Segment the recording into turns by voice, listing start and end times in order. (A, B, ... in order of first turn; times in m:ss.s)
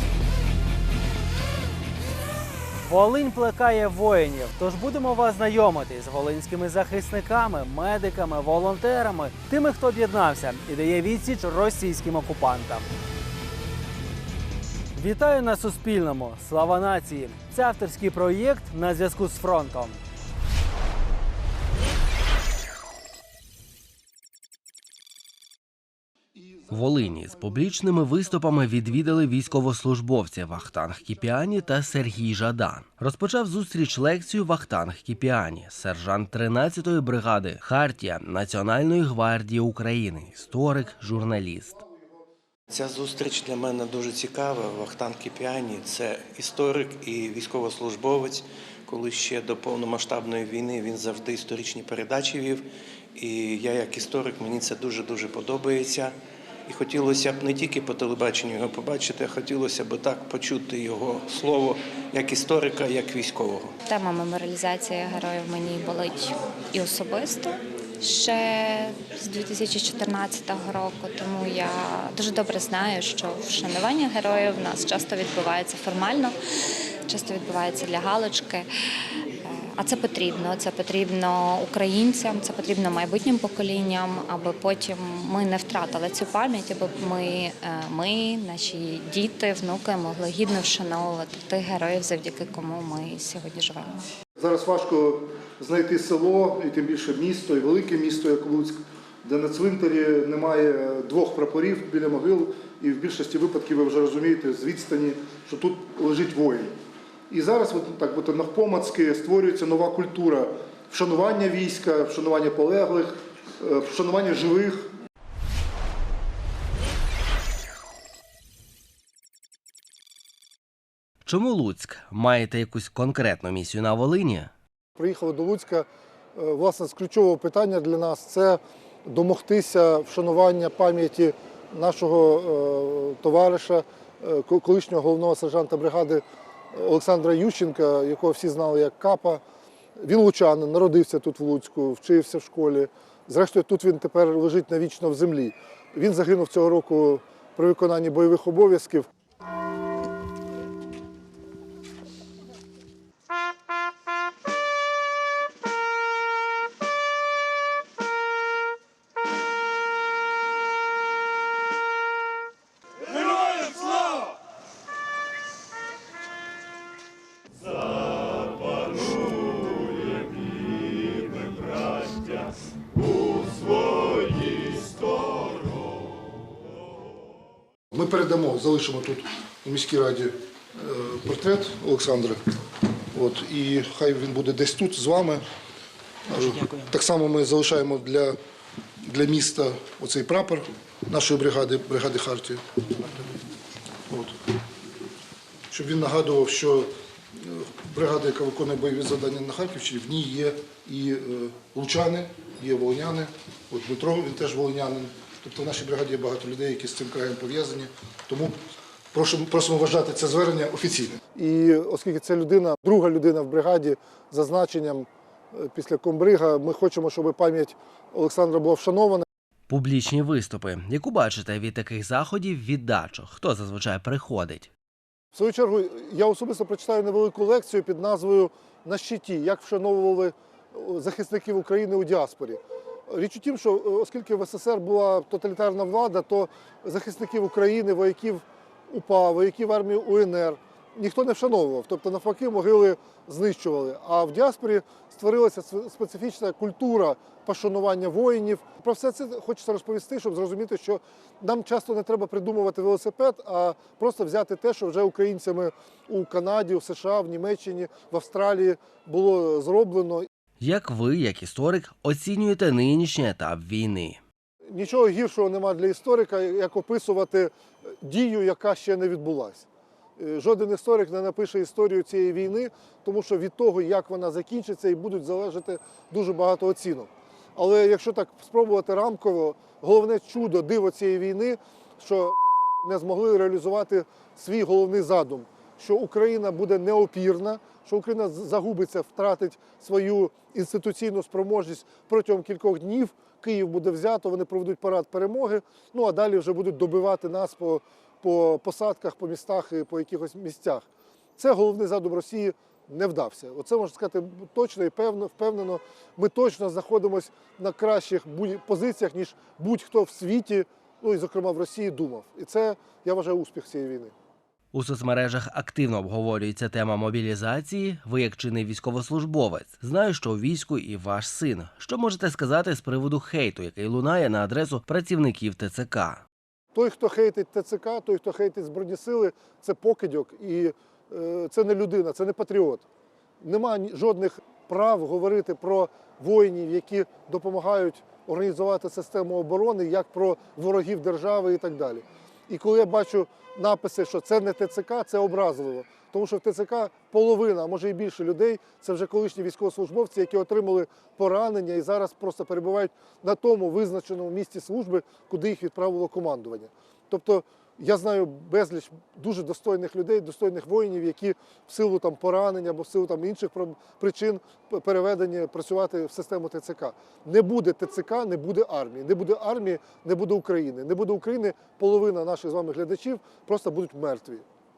0:02.8-0:12.9 A
0:15.0-0:20.0 A
0:26.4-0:27.4 B
0:26.7-0:41.8 C
0:42.7-0:56.2 D
0:56.7-1:03.8 D
1:04.0-1:16.3 E
1:17.1-1:18.6 E
1:19.4-1:34.0 E
1:34.4-1:46.7 B
1:47.3-1:54.9 B
2:01.2-2:04.5 C
2:05.0-2:19.4 B
2:20.0-2:29.1 B
2:57.9-3:02.4 B
3:03.1-3:05.4 B
3:06.3-3:08.4 B
3:09.0-3:12.6 B
3:15.7-3:16.9 B
3:17.5-3:28.5 B
3:29.1-3:39.2 B
3:39.7-3:44.7 C
3:45.3-4:20.3 B
4:20.6-4:24.2 C
4:24.7-4:29.7 B
4:30.2-5:00.9 B
5:01.4-5:14.1 B
5:14.7-5:26.2 C
5:26.7-5:32.8 B
5:33.4-6:14.4 B